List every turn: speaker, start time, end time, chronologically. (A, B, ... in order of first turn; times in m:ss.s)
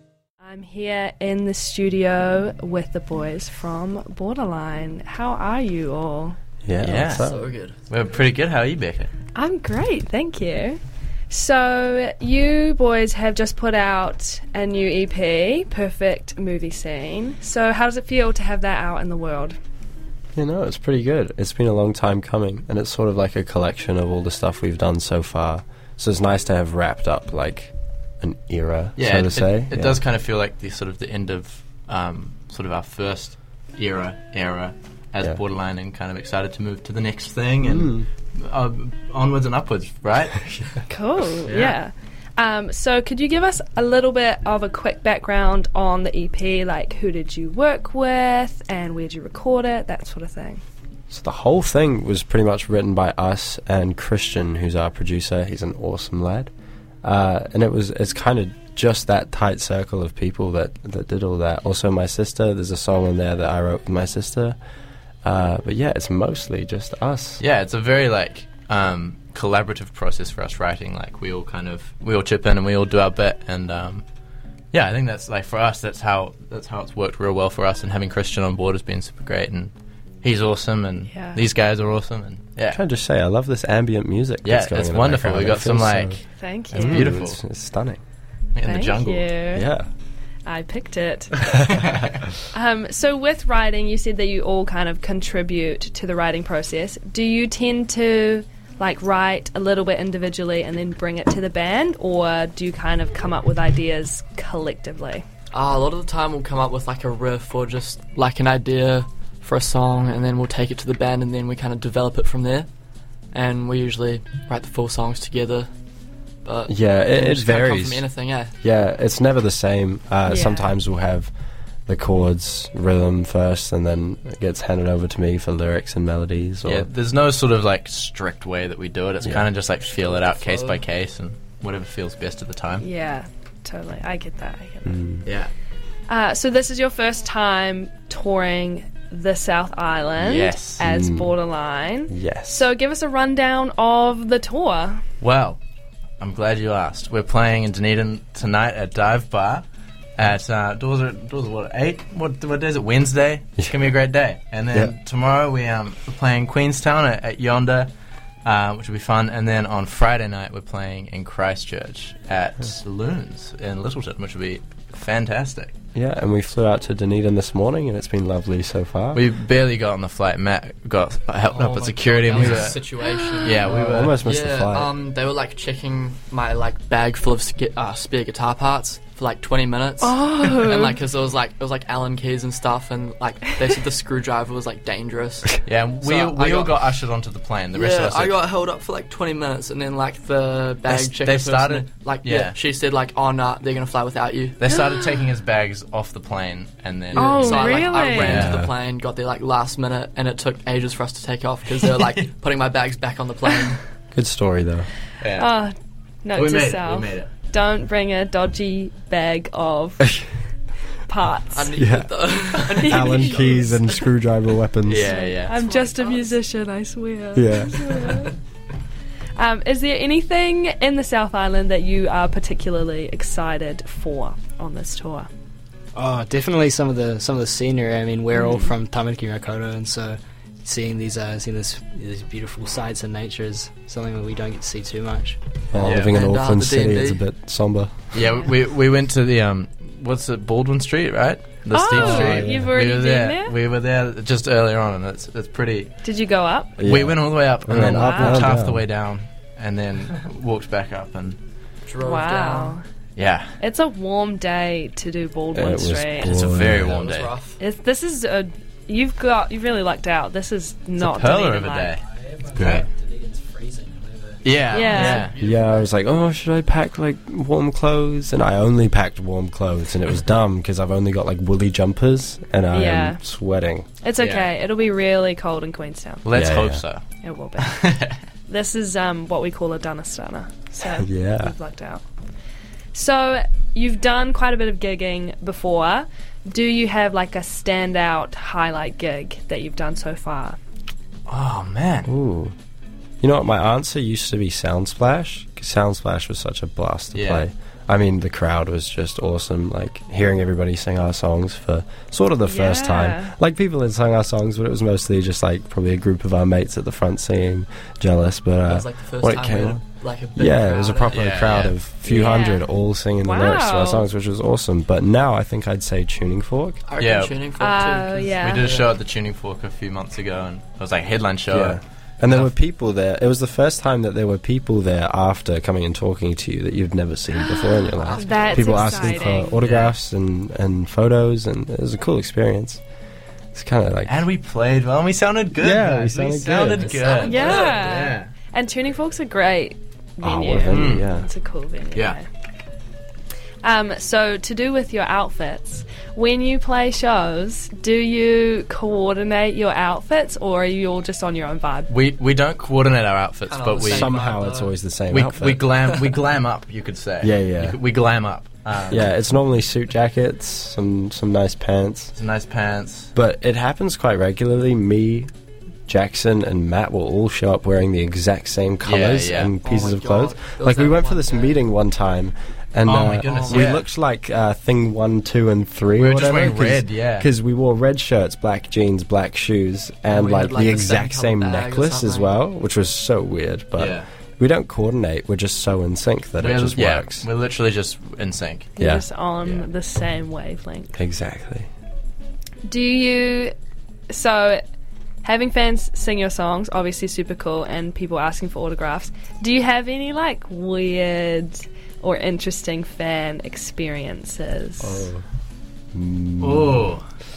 0:00.4-0:06.4 A
0:06.6-0:07.5 B
0:06.8-0:07.3 C
0:07.2-0:07.8 D
0:07.9-0:09.1 C
0:09.4-0:10.8 A
0:11.3-0:19.6 A
0:20.4-0:30.0 B
0:29.0-0:40.6 C
0:37.6-0:38.1 B
0:40.9-0:50.6 A
0:41.5-0:41.8 C
0:51.1-0:56.5 B
0:57.0-1:04.6 B
1:05.2-1:07.4 B
1:07.4-1:14.0 C
1:14.7-1:22.8 C
1:21.1-1:21.4 A
1:22.7-1:28.0 B
1:24.4-1:27.4 C
1:26.4-1:27.1 A
1:28.6-1:29.3 C
1:28.6-1:29.7 A
1:29.5-1:29.9 B
1:30.5-1:31.7 A
1:31.8-1:32.1 C
1:32.5-1:45.2 A
1:45.5-1:52.7 D
1:53.3-1:55.7 D
1:56.4-1:58.5 D
1:56.7-1:58.1 B
1:58.6-2:01.3 B
2:00.3-2:00.7 A
2:01.9-2:06.9 B
2:06.6-2:12.8 C
2:09.2-2:09.5 B
2:09.9-2:10.8 D
2:12.8-2:15.0 A
2:14.8-2:15.3 B
2:15.2-2:15.5 C
2:16.1-2:25.0 A
2:20.2-2:20.8 C
2:20.8-2:21.4 B
2:22.1-2:22.7 B
2:25.2-2:25.6 C
2:26.2-2:29.6 C
2:30.2-2:37.9 C
2:38.4-2:45.8 C
2:46.0-2:49.2 B
2:49.1-2:52.8 C
2:51.5-3:06.8 D
2:53.1-2:53.5 A
2:53.4-2:54.2 C
2:53.7-2:54.9 B
3:00.0-3:01.0 A
3:05.6-3:08.4 C
3:07.7-3:14.6 D
3:10.9-3:12.6 C
3:14.6-3:18.6 C
3:17.1-3:18.4 A
3:17.2-3:23.8 D
3:18.2-3:18.7 B
3:21.8-3:22.3 C
3:24.1-3:24.9 B
3:25.2-3:25.5 C
3:25.3-3:30.2 A
3:26.3-3:27.3 C
3:31.1-3:31.7 A
3:31.5-3:33.9 D
3:31.8-3:32.1 B
3:32.7-3:35.2 B
3:32.7-3:33.8 A
3:34.8-3:35.6 C
3:35.0-3:38.3 A
3:35.5-3:36.4 D
3:37.4-3:38.1 B
3:39.4-3:45.3 A
3:45.9-3:55.4 E
3:48.4-3:48.7 A
3:55.7-3:58.1 B
3:55.8-3:56.2 C
3:55.9-3:57.2 D
3:58.1-4:05.9 C
4:01.7-4:03.6 A
4:01.9-4:02.7 B
4:06.0-4:06.8 A
4:06.8-4:08.8 B
4:06.8-4:11.4 C
4:07.8-4:08.5 A
4:11.9-4:12.8 D
4:12.0-4:12.8 A
4:13.2-4:13.6 C
4:13.6-4:16.4 A
4:15.5-4:17.0 B
4:16.2-4:17.3 C
4:16.8-4:17.6 D
4:17.6-4:22.0 A
4:21.0-4:22.0 C
4:22.0-4:24.5 E
4:22.6-4:22.9 C
4:24.4-4:25.4 C
4:24.6-4:25.9 D
4:24.7-4:25.3 A
4:25.4-4:33.9 B
4:32.7-4:33.2 A
4:34.0-4:36.2 A
4:34.2-4:34.5 C
4:36.2-4:37.0 C
4:36.3-4:36.8 B
4:37.2-4:37.9 A
4:37.6-4:38.2 C
4:38.5-4:42.0 A
4:40.8-4:41.5 B
4:42.9-4:50.6 A
4:51.3-4:52.1 C
4:52.1-4:52.5 B
4:53.2-5:09.8 B
4:57.1-4:57.5 C
5:02.5-5:03.3 A
5:08.6-5:11.4 D
5:10.4-5:16.8 B
5:11.1-5:11.8 C
5:12.0-5:12.7 A
5:13.2-5:14.1 A
5:16.9-5:18.9 D
5:17.0-5:17.4 C
5:17.6-5:18.8 A
5:18.4-5:22.5 C
5:21.5-5:32.8 B
5:27.4-5:29.6 A
5:28.0-5:30.0 C
5:28.1-5:29.0 D
5:33.6-5:34.2 B
5:34.1-5:38.3 C
5:35.6-5:37.6 B
5:36.6-5:37.8 D
5:37.2-5:42.2 A
5:40.2-5:41.3 B
5:40.7-5:41.0 C
5:43.6-5:51.9 A
5:51.9-5:54.1 C
5:53.5-5:54.7 D
5:53.9-5:55.7 B
5:55.1-5:59.1 C
5:57.2-5:57.8 B
5:58.9-6:02.1 B
6:02.1-6:03.1 C
6:03.2-6:05.3 B
6:05.9-6:27.3 B
6:08.8-6:09.5 C
6:09.6-6:11.6 D
6:12.8-6:13.9 C
6:13.2-6:13.8 D
6:16.0-6:17.3 C
6:20.1-6:22.4 D
6:23.8-6:24.1 C
6:26.4-6:28.7 C
6:28.8-6:31.0 A
6:28.8-6:29.0 B
6:31.0-6:31.7 B
6:32.6-6:33.5 A
6:34.1-6:34.6 A
6:35.2-6:45.1 A
6:44.8-6:45.2 B
6:45.9-6:46.9 B
6:46.4-6:47.0 C